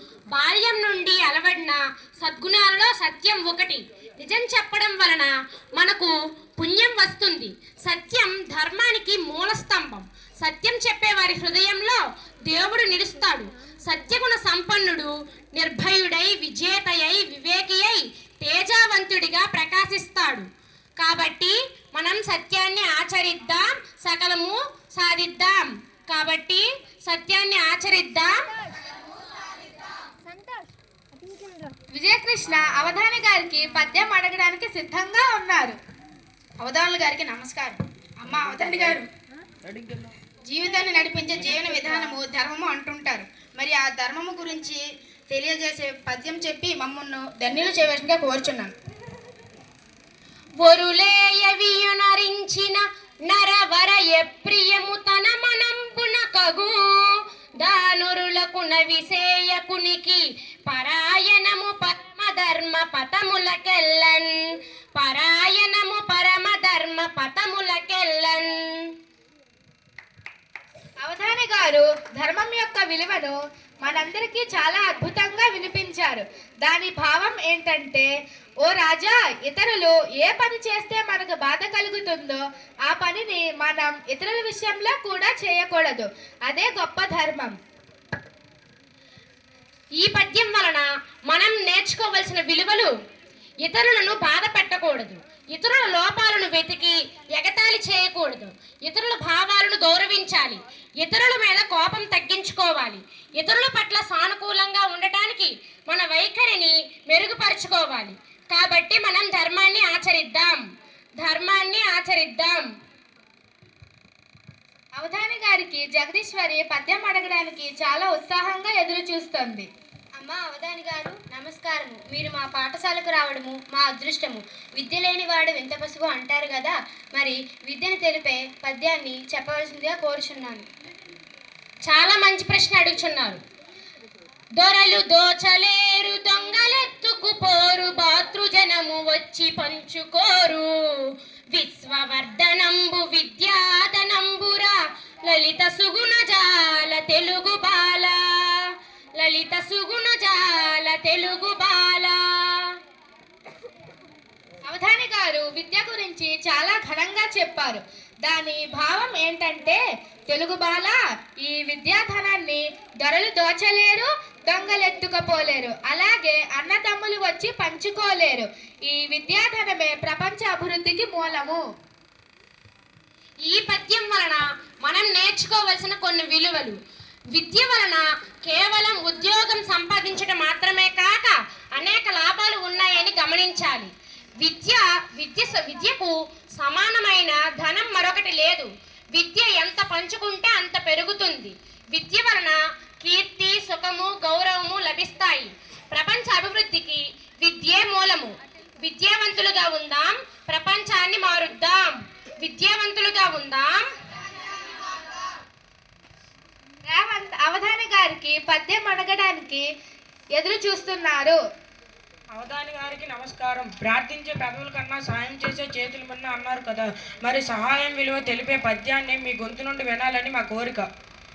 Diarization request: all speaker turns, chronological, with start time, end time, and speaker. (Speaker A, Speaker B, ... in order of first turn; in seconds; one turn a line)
Speaker A: 0.3-20.5
Speaker A: 21.0-28.3
Speaker B: 32.0-35.8
Speaker C: 36.6-39.1
Speaker C: 40.5-48.8
Speaker A: 50.6-64.3
Speaker A: 65.0-68.5
Speaker B: 71.0-78.1
Speaker B: 78.6-87.6
Speaker A: 90.0-92.9
Speaker A: 93.7-110.6
Speaker A: 111.2-112.7
Speaker B: 115.0-119.7
Speaker D: 120.2-130.7
Speaker A: 131.9-133.4
Speaker A: 134.6-140.7
Speaker A: 141.5-144.8
Speaker A: 145.3-152.7
Speaker B: 154.7-171.6
Speaker A: 173.5-176.8
Speaker A: 177.3-183.9
Speaker A: 184.4-203.8
Speaker B: 206.9-209.7
Speaker B: 210.4-211.4
Speaker E: 212.3-220.9